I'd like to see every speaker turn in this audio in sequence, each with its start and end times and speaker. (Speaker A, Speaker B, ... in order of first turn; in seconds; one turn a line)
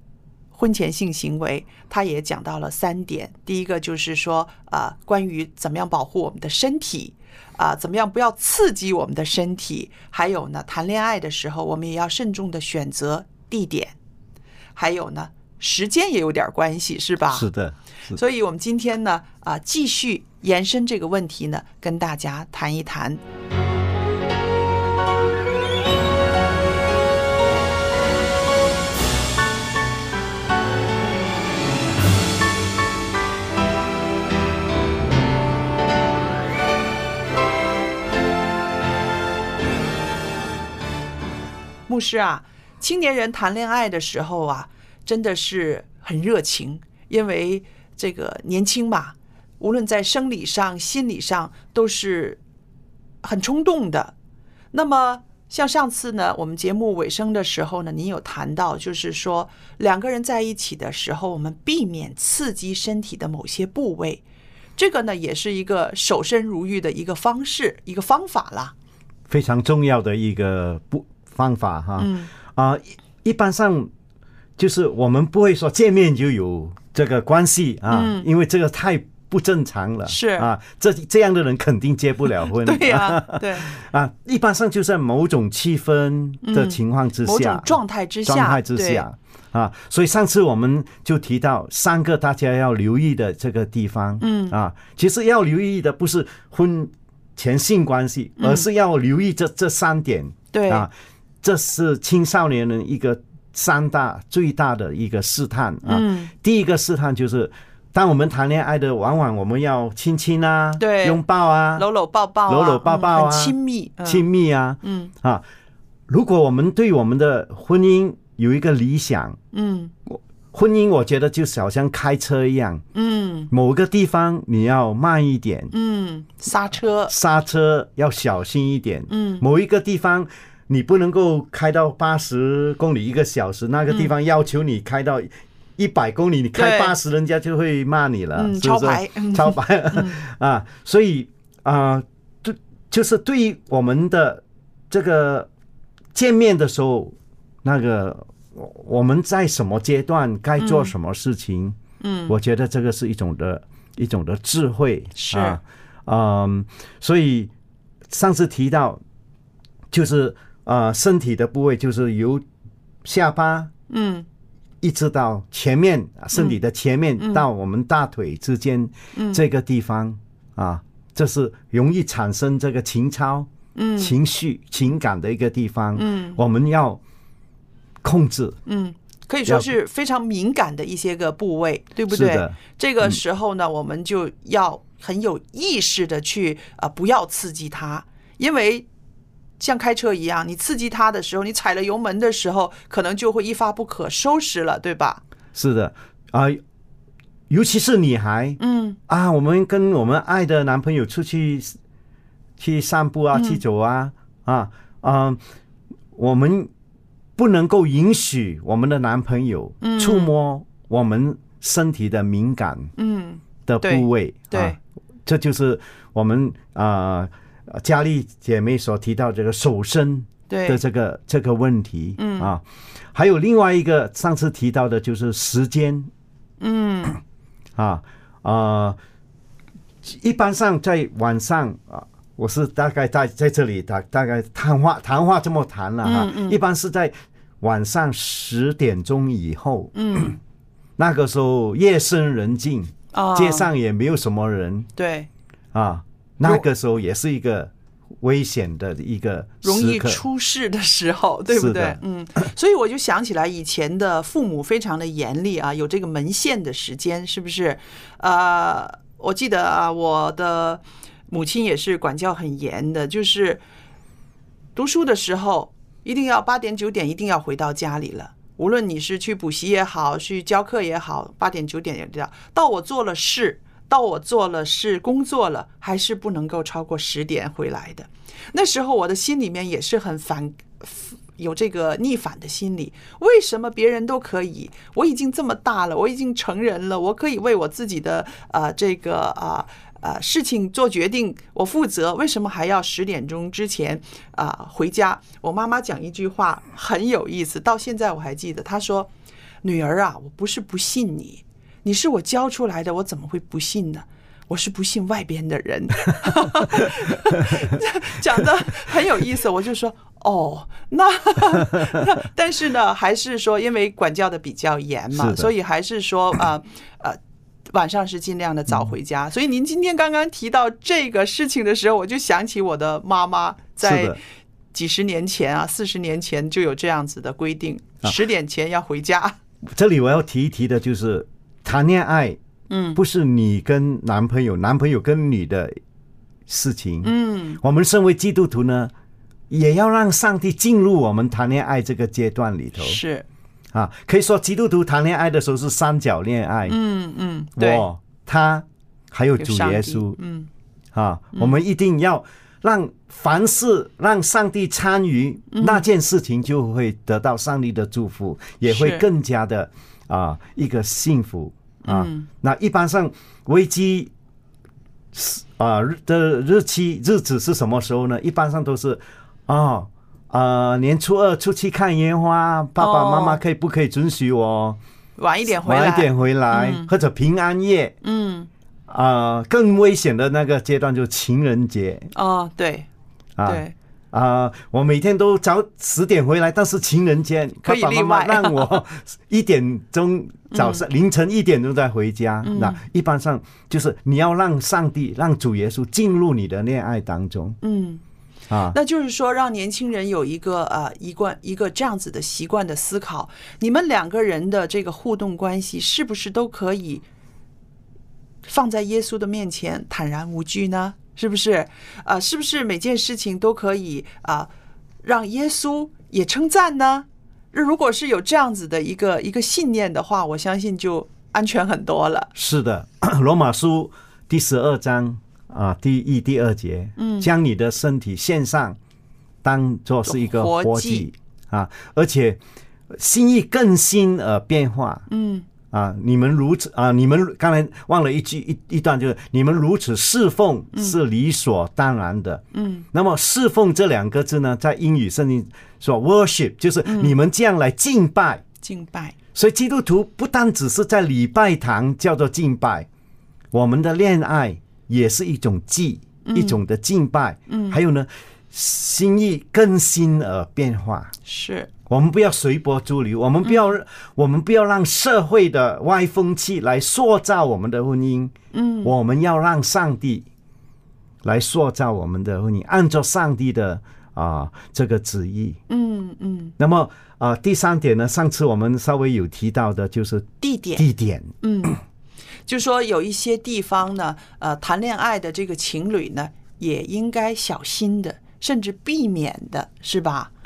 Speaker A: 0.5-13.9
Speaker A: 14.8-17.5
Speaker B: 17.3-18.2
Speaker A: 18.1-23.2
Speaker A: 41.9-52.4
Speaker A: 53.2-54.1
Speaker A: 54.7-64.2
Speaker A: 64.8-68.7
Speaker B: 69.3-73.9
Speaker A: 72.0-72.3
Speaker B: 74.6-87.8
Speaker A: 77.9-78.3
Speaker A: 80.1-80.5
Speaker A: 82.5-83.8
Speaker A: 86.4-89.1
Speaker B: 88.3-100.9
Speaker A: 94.2-94.6
Speaker A: 98.4-98.7
Speaker A: 100.5-100.9
Speaker B: 101.4-111.9
Speaker A: 105.9-106.3
Speaker A: 110.8-111.2
Speaker A: 111.8-114.3
Speaker B: 112.5-115.4
Speaker A: 114.8-115.1
Speaker B: 116.1-119.4
Speaker A: 119.5-119.9
Speaker B: 120.1-122.8
Speaker A: 123.0-123.5
Speaker B: 123.5-125.7
Speaker A: 125.7-127.1
Speaker B: 127.1-145.5
Speaker A: 129.1-129.4
Speaker A: 136.6-137.0
Speaker A: 138.3-140.2
Speaker B: 146.2-157.5
Speaker A: 150.6-150.9
Speaker A: 152.0-152.3
Speaker A: 155.2-155.6
Speaker B: 158.1-159.0
Speaker B: 159.9-162.4
Speaker B: 163.0-163.7
Speaker A: 163.9-164.3
Speaker B: 164.8-177.0
Speaker A: 166.3-166.6
Speaker A: 167.2-167.5
Speaker A: 169.2-169.4
Speaker A: 173.8-174.2
Speaker A: 175.9-176.4
Speaker B: 178.0-178.6
Speaker A: 178.7-188.9
Speaker B: 182.1-183.2
Speaker A: 189.6-195.2
Speaker B: 195.6-196.6
Speaker B: 197.5-201.8
Speaker A: 198.6-199.0
Speaker B: 202.6-205.4
Speaker A: 203.3-203.6
Speaker B: 206.2-206.7
Speaker B: 207.4-212.9
Speaker A: 209.8-210.3
Speaker A: 213.0-214.8
Speaker B: 213.7-222.6
Speaker A: 220.5-220.8
Speaker A: 222.2-222.5
Speaker B: 223.1-226.1
Speaker A: 226.6-227.2
Speaker B: 227.8-229.0
Speaker B: 230.0-240.0
Speaker A: 236.0-236.6
Speaker A: 239.9-240.4
Speaker B: 241.0-244.9
Speaker A: 243.1-243.7
Speaker A: 245.0-245.3
Speaker B: 245.7-250.2
Speaker A: 249.6-263.6
Speaker B: 251.5-252.0
Speaker A: 264.8-299.1
Speaker A: 299.6-317.2
Speaker B: 306.7-307.6
Speaker B: 315.1-315.5
Speaker A: 317.7-324.2
Speaker B: 323.8-324.2
Speaker A: 324.7-329.4
Speaker B: 329.7-332.4
Speaker A: 332.7-333.0
Speaker B: 333.0-335.8
Speaker B: 336.5-338.9
Speaker A: 337.0-337.6
Speaker B: 339.5-343.0
Speaker A: 342.8-343.3
Speaker B: 343.7-346.8
Speaker A: 346.7-347.9
Speaker B: 347.6-350.2
Speaker A: 349.4-350.5
Speaker B: 350.9-364.1
Speaker A: 355.5-355.9
Speaker A: 358.6-359.1
Speaker A: 361.8-362.3
Speaker B: 365.1-374.8
Speaker A: 372.8-373.4
Speaker A: 375.2-376.9
Speaker B: 375.6-378.0
Speaker A: 378.0-378.5
Speaker B: 378.9-382.1
Speaker A: 382.1-382.9
Speaker B: 383.4-397.6
Speaker A: 383.4-383.7
Speaker A: 387.6-388.8
Speaker A: 390.5-390.8
Speaker A: 392.4-392.8
Speaker A: 397.6-398.0
Speaker B: 398.5-398.8
Speaker A: 398.7-407.0
Speaker A: 408.4-414.5
Speaker A: 415.0-422.3
Speaker B: 422.4-428.8
Speaker A: 427.0-427.3
Speaker B: 429.4-432.4
Speaker A: 430.1-431.1
Speaker B: 432.9-435.1
Speaker A: 435.1-435.5
Speaker B: 435.7-448.4
Speaker A: 442.5-442.9
Speaker A: 446.9-447.1
Speaker A: 448.6-449.2
Speaker B: 449.4-452.9
Speaker B: 453.5-461.1
Speaker A: 456.2-456.6
Speaker A: 457.5-457.8
Speaker A: 461.3-461.7
Speaker B: 461.9-468.3
Speaker A: 463.4-463.8
Speaker A: 468.5-468.9
Speaker B: 468.8-470.3
Speaker B: 471.2-475.6
Speaker A: 475.7-476.6
Speaker B: 476.6-481.3
Speaker A: 480.4-480.9
Speaker A: 481.4-481.8
Speaker A: 482.5-490.3